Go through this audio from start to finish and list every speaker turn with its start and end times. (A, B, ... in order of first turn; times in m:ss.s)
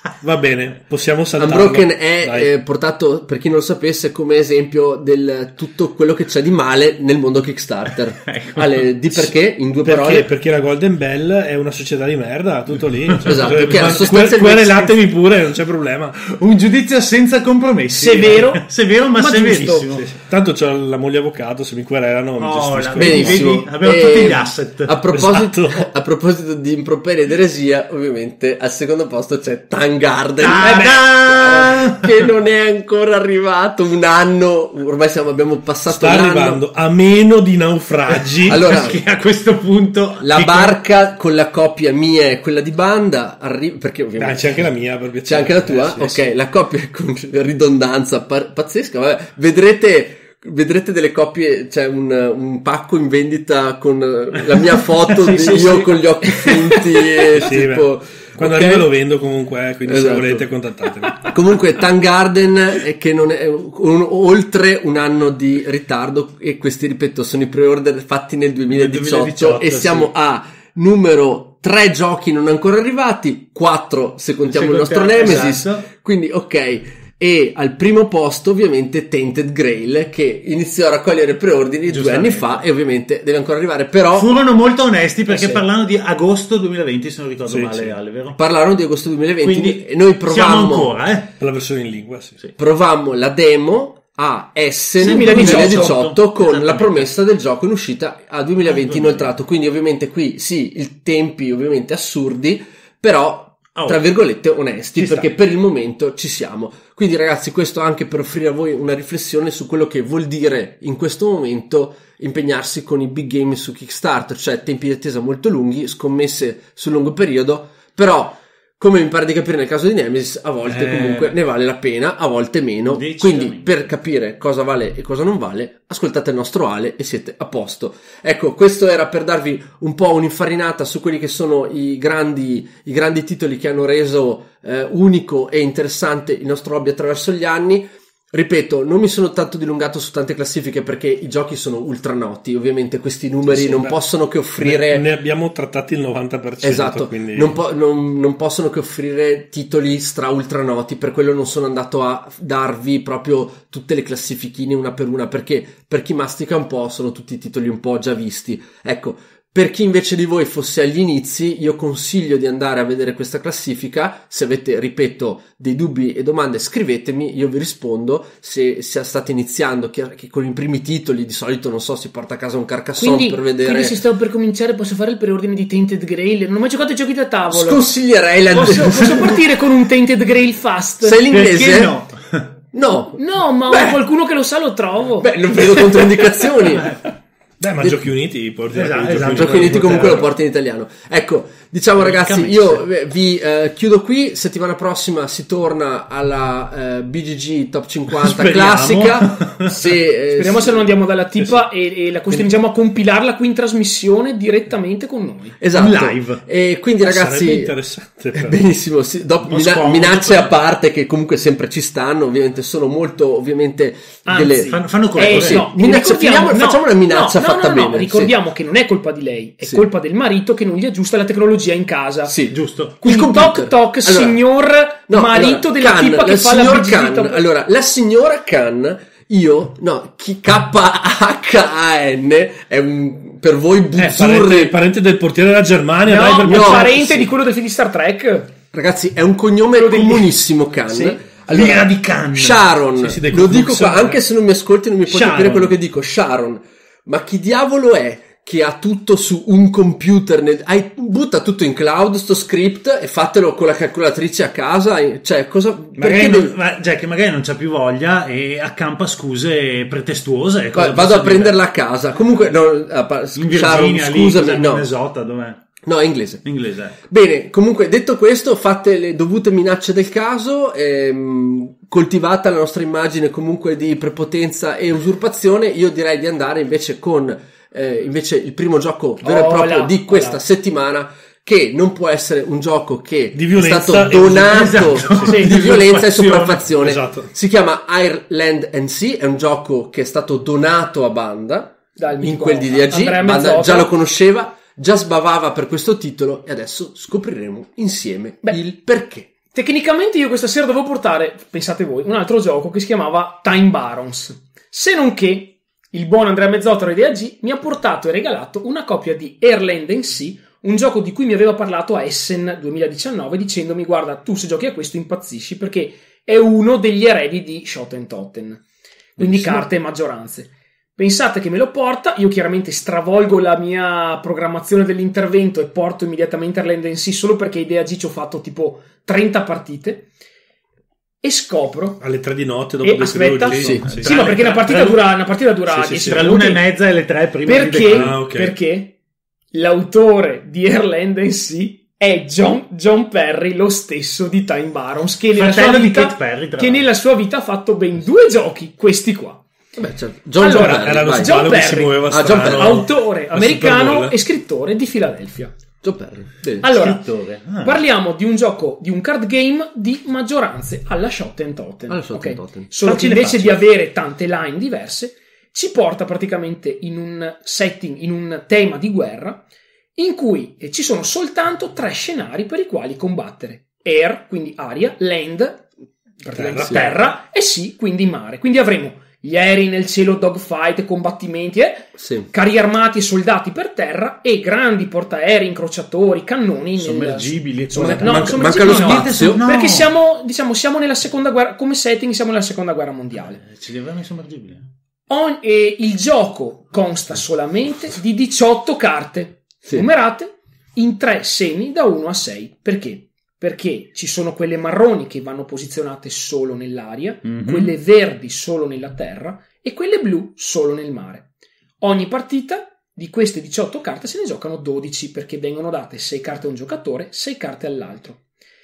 0:00.2-0:02.5 A
0:01.4-0:10.3 B
0:08.2-0:08.9 C
0:09.1-0:16.2 A
0:13.1-0:15.0 C
0:13.2-0:14.7 B
0:16.2-0:20.0 C
0:17.9-0:19.9 D
0:19.7-0:23.6 A
0:22.4-0:24.9 C
0:23.0-0:36.6 B
0:25.1-0:25.9 A
0:30.4-0:32.3 C
0:35.9-0:38.9 A
0:38.3-0:40.8 C
0:38.5-0:39.0 B
0:40.2-0:44.6 B
0:44.2-0:46.2 A
0:45.2-0:58.9 B
0:55.1-0:56.5 C
0:55.3-0:55.8 A
0:57.3-1:01.3 A
0:59.8-1:00.5 B
1:01.2-1:24.4 B
1:08.7-1:10.0 A
1:08.8-1:10.1 C
1:14.4-1:15.9 C
1:21.9-1:22.6 C
1:24.1-1:28.4 C
1:25.3-1:25.6 B
1:27.5-1:27.9 A
1:28.4-1:31.0 B
1:29.4-1:31.3 C
1:31.4-1:32.4 A
1:32.6-2:25.0 B
1:35.0-1:36.0 D
1:35.0-1:37.1 C
1:38.6-1:39.3 C
1:43.8-1:44.0 C
1:45.0-1:45.3 C
2:00.7-2:01.2 C
2:02.8-2:03.7 C
2:23.4-2:24.0 A
2:24.6-2:27.6 A
2:26.6-2:54.0 B
2:53.0-2:57.9 D
2:57.5-2:59.5 B
2:58.5-3:01.2 D
2:58.6-2:58.9 C
3:01.0-3:02.0 B
3:01.3-3:02.5 C
3:02.7-3:03.9 B
3:03.1-3:06.1 D
3:05.2-3:07.0 B
3:06.6-3:07.0 C
3:07.6-3:10.3 A
3:07.8-3:08.1 B
3:08.7-3:10.3 C
3:09.2-3:20.9 B
3:12.0-3:12.8 C
3:18.1-3:20.0 C
3:20.3-3:25.6 D
3:25.6-3:27.7 B
3:25.7-3:26.4 C
3:27.0-3:28.6 A
3:28.3-3:38.3 B
3:29.4-3:30.5 C
3:34.2-3:42.3 D
3:34.7-3:35.7 C
3:42.2-3:44.4 B
3:42.5-3:43.0 C
3:43.0-3:47.4 D
3:45.1-3:54.8 B
3:54.0-3:57.3 A
3:56.0-3:58.5 D
3:56.4-3:56.9 B
3:58.7-4:16.5 B
3:59.7-4:00.3 D
4:00.9-4:01.2 D
4:01.5-4:02.7 C
4:03.0-4:04.2 A
4:05.0-4:05.7 C
4:16.0-4:21.6 C
4:20.7-4:24.9 B
4:23.3-4:25.6 C
4:25.8-4:26.4 B
4:26.4-4:27.0 C
4:27.0-4:59.3 B
4:39.2-4:40.4 D
4:43.3-4:45.3 A
4:44.1-4:46.7 C
4:45.2-4:45.5 D
4:46.8-4:47.3 A
4:52.0-4:53.9 D
4:59.5-5:18.6 D
5:19.2-5:30.1 D
5:19.2-5:19.6 A
5:31.2-5:32.0 D
5:32.0-5:34.1 A
5:32.8-5:36.6 D
5:33.5-5:34.0 B
5:33.8-5:35.1 C
5:35.7-5:36.3 A
5:36.0-5:38.1 C
5:37.4-5:38.9 D
5:37.8-5:38.5 A
5:39.5-5:49.4 D
5:45.3-5:46.9 C
5:49.8-5:52.9 B
5:50.4-5:55.5 D
5:50.4-5:54.2 A
5:55.8-5:56.7 B
5:56.6-5:57.0 D
5:56.7-5:57.8 C
5:57.6-6:09.4 D
6:01.9-6:02.7 B
6:02.8-6:03.6 C
6:10.0-6:33.4 D
6:16.3-6:16.9 A
6:16.6-6:16.9 B
6:22.0-6:22.3 B
6:26.8-6:29.9 C
6:27.7-6:29.4 B
6:33.4-6:34.7 C
6:35.1-6:51.3 D
6:47.2-6:47.7 C
6:51.8-6:58.2 D